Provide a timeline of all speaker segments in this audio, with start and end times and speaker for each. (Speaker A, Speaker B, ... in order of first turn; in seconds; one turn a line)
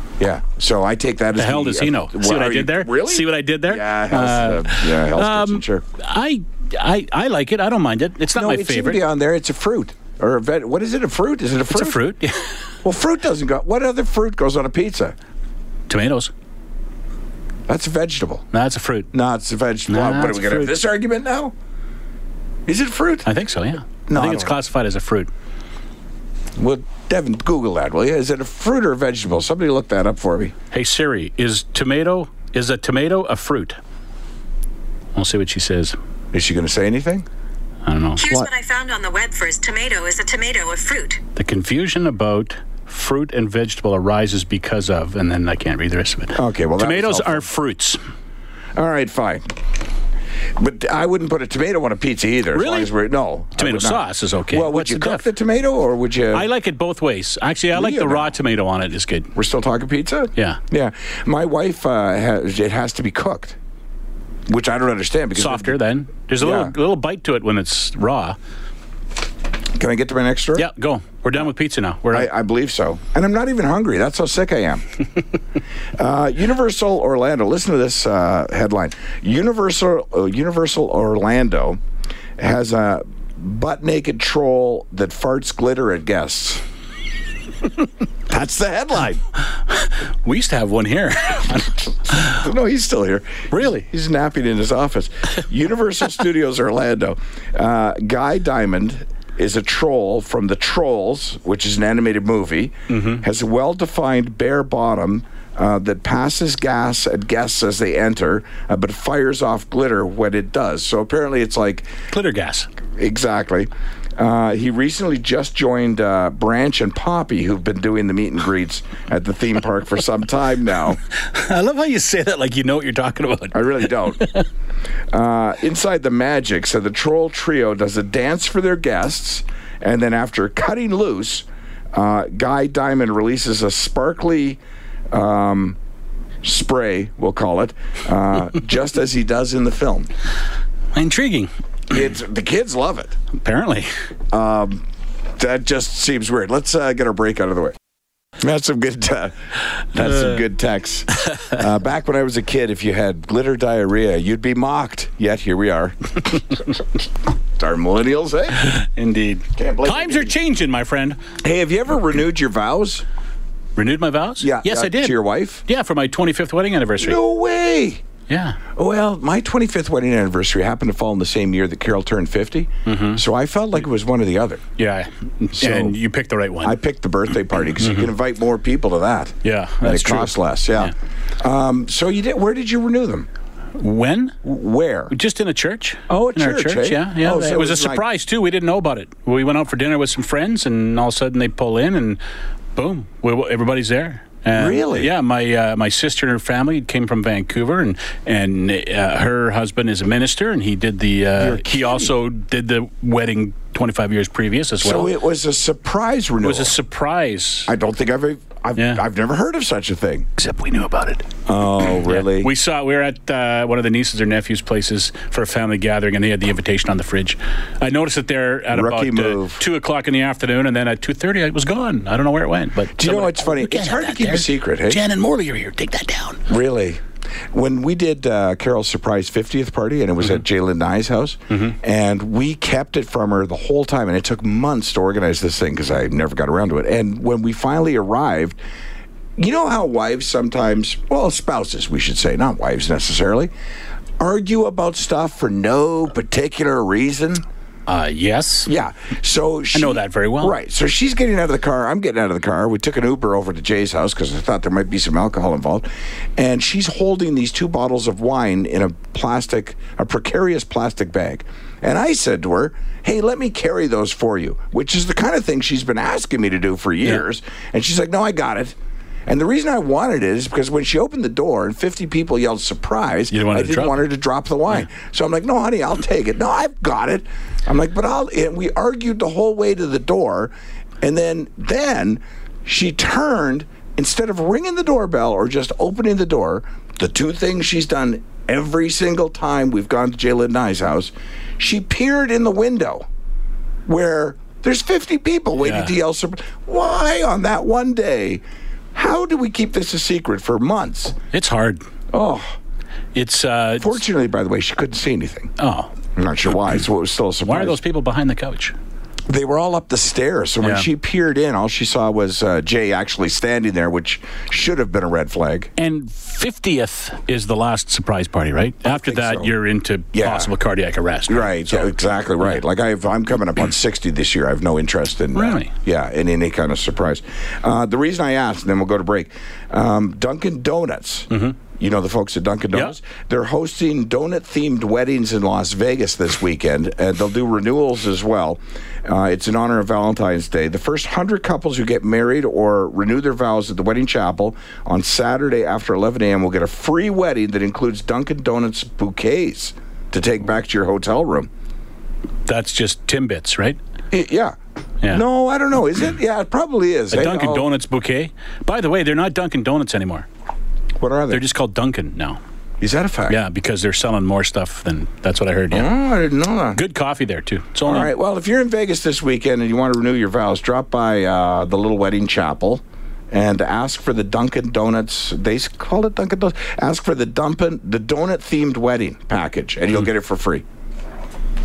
Speaker A: 0.2-5.8
Speaker B: 1.4-9.0
Speaker A: 8.3-12.0
Speaker B: 11.7-12.6
Speaker A: 12.8-15.2
Speaker B: 15.9-16.3
Speaker A: 17.7-18.4
Speaker B: 18.5-19.1
Speaker A: 19.1-21.5
Speaker B: 19.9-20.8
Speaker A: 22.7-23.3
Speaker B: 23.2-25.3
Speaker A: 24.1-24.6
Speaker A: 26.6-30.5
Speaker B: 30.7-33.8
Speaker B: 35.1-36.0
Speaker A: 36.3-37.3
Speaker B: 37.9-38.2
Speaker C: 38.2-41.2
Speaker A: 38.2-38.5
Speaker B: 41.4-48.0
Speaker A: 46.4-47.5
Speaker A: 48.8-49.4
Speaker A: 50.6-56.5
Speaker B: 52.5-52.9
Speaker B: 53.6-55.3
Speaker B: 56.3-59.3
Speaker A: 57.7-58.4
Speaker A: 59.4-63.6
Speaker B: 60.4-60.6
Speaker A: 64.5-65.8
Speaker B: 65.3-68.4
Speaker A: 66.4-66.8
Speaker A: 69.8-70.7
Speaker B: 70.5-72.3
Speaker A: 72.1-74.8
Speaker A: 76.0-81.8
Speaker A: 82.4-86.6
Speaker A: 88.3-89.2
Speaker B: 89.8-92.4
Speaker A: 92.1-111.9
Speaker B: 93.5-93.9
Speaker B: 102.9-103.2
Speaker B: 112.1-112.7
Speaker A: 113.0-121.0
Speaker B: 121.1-124.5
Speaker A: 123.5-124.2
Speaker A: 125.1-134.6
Speaker A: 135.1-135.8
Speaker A: 136.4-140.1
Speaker B: 140.9-141.5
Speaker A: 141.9-143.2
Speaker B: 143.3-143.9
Speaker A: 144.3-144.8
Speaker A: 145.4-147.7
Speaker A: 148.4-149.3
Speaker A: 149.9-156.6
Speaker A: 157.6-158.6
Speaker B: 158.6-161.2
Speaker A: 159.6-160.3
Speaker A: 161.4-163.0
Speaker B: 163.8-167.2
Speaker A: 164.4-165.6
Speaker A: 167.0-168.0
Speaker B: 168.3-168.6
Speaker A: 168.8-174.6
Speaker B: 172.9-173.2
Speaker B: 174.8-176.8
Speaker A: 175.6-176.0
Speaker A: 176.6-183.3
Speaker B: 177.8-178.1
Speaker B: 179.4-180.9
Speaker B: 183.8-184.4
Speaker A: 184.4-185.1
Speaker B: 185.1-192.2
Speaker A: 186.1-188.1
Speaker B: 192.8-205.2
Speaker A: 194.5-195.1
Speaker A: 201.4-202.1
Speaker A: 204.8-206.8
Speaker B: 206.4-207.7
Speaker A: 207.7-210.3
Speaker B: 208.8-209.0
Speaker B: 210.4-211.3
Speaker A: 211.5-212.5
Speaker B: 212.0-226.5
Speaker A: 218.7-219.6
Speaker A: 223.0-225.0
Speaker A: 226.5-227.0
Speaker A: 227.5-238.6
Speaker A: 239.4-243.5
Speaker A: 244.2-247.4
Speaker B: 247.9-248.7
Speaker A: 248.7-268.7
Speaker B: 249.7-250.6
Speaker A: 269.3-293.1
Speaker B: 273.3-274.0
Speaker A: 293.9-298.4
Speaker B: 295.6-295.9
Speaker A: 298.9-301.1
Speaker B: 301.3-301.8
Speaker A: 302.1-302.5
Speaker B: 303.1-304.0
Speaker A: 303.8-305.5
Speaker B: 305.6-305.9
Speaker A: 306.2-307.8
Speaker B: 307.4-308.8
Speaker A: 309.3-315.7
Speaker B: 310.6-310.9
Speaker B: 315.8-321.9
Speaker A: 318.9-319.5
Speaker A: 320.1-320.5
Speaker A: 321.3-351.5
Speaker B: 325.4-325.7
Speaker B: 331.3-331.6
Speaker B: 352.5-353.8
Speaker A: 354.1-354.6
Speaker A: 355.1-357.7
Speaker B: 357.1-360.3
Speaker A: 361.0-361.4
Speaker B: 361.3-362.4
Speaker A: 362.8-363.4
Speaker B: 363.3-365.9
Speaker A: 365.7-366.8
Speaker B: 366.7-368.1
Speaker A: 367.9-380.6